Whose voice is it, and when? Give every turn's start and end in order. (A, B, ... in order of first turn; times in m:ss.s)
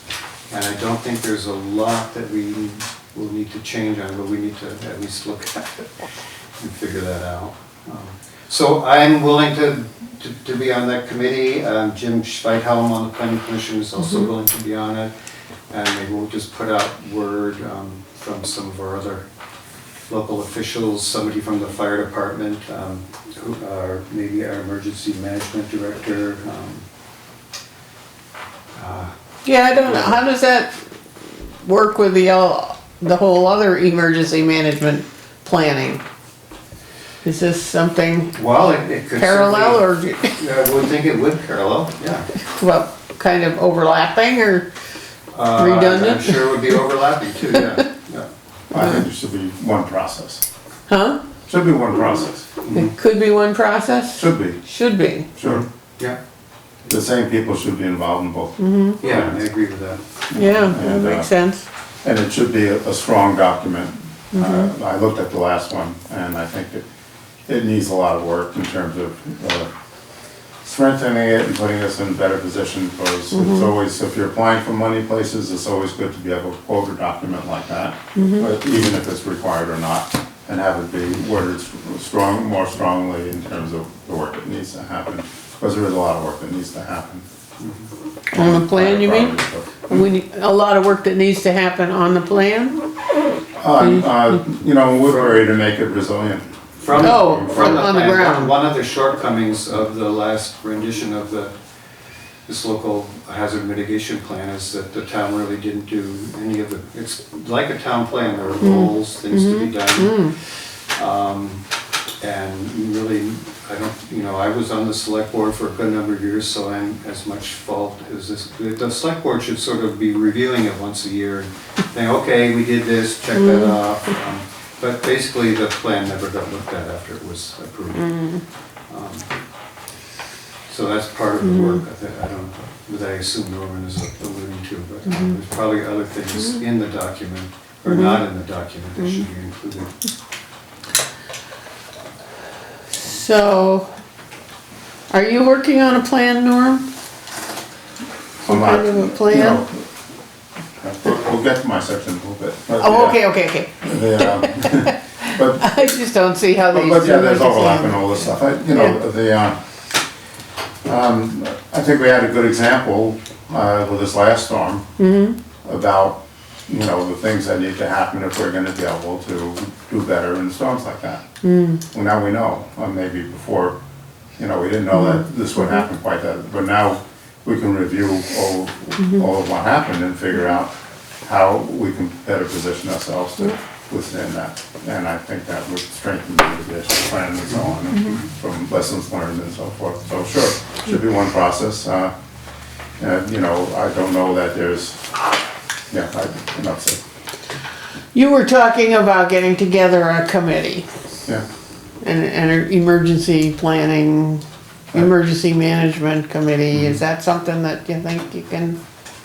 0:00.5-0:05.9 A
0:06.6-0:15.1 A
0:15.7-0:19.2 A
0:20.1-0:26.8 A
0:28.7-0:29.1 A
0:29.4-0:30.7 B
0:29.8-0:30.2 A
0:31.6-0:36.0 B
0:37.2-0:38.4 B
0:38.3-0:42.3 A
0:39.2-0:40.4 B
0:42.5-0:44.7 B
0:45.3-0:48.3 A
0:45.6-0:46.8 B
0:48.7-0:50.4 C
0:50.9-0:51.2 B
0:51.5-0:52.6 C
0:52.6-0:52.9 A
0:52.7-0:55.3 B
0:54.1-0:54.6 C
0:55.4-0:55.6 C
0:55.4-0:56.2 A
0:56.9-0:59.4 C
0:58.6-0:59.0 B
0:59.0-1:00.0 A
1:00.3-1:01.3 C
1:00.3-1:01.6 B
1:02.0-1:06.8 C
1:04.3-1:04.7 B
1:07.5-1:09.7 C
1:10.6-1:27.2 C
1:13.3-1:13.7 B
1:18.2-1:18.4 B
1:28.3-1:30.0 C
1:28.3-1:32.8 B
1:33.6-1:37.9 C
1:33.8-1:34.4 B
1:35.1-1:35.3 A
1:36.8-1:41.5 A
1:37.0-1:38.5 B
1:42.5-1:51.6 A
1:48.6-1:50.3 B
1:52.2-2:08.3 A
2:03.4-2:03.7 B
2:08.0-2:08.4 B
2:08.9-2:09.3 A
2:10.7-2:19.9 A
2:11.5-2:11.8 B
2:17.9-2:18.2 B
2:23.0-2:23.9 B
2:25.1-2:26.8 B
2:28.4-2:29.6 B
2:28.5-2:29.8 C
2:30.8-2:35.6 C
2:32.8-2:38.1 B
2:36.7-2:39.6 C
2:38.7-2:39.0 B
2:40.8-2:44.8 C
2:45.0-2:45.4 B
2:45.6-2:51.2 C
2:51.4-2:51.8 B
2:51.9-2:53.8 C
2:54.4-3:12.1 C
3:13.0-3:15.0 C
3:15.9-3:17.0 C
3:18.1-3:20.8 B
3:22.0-3:28.8 B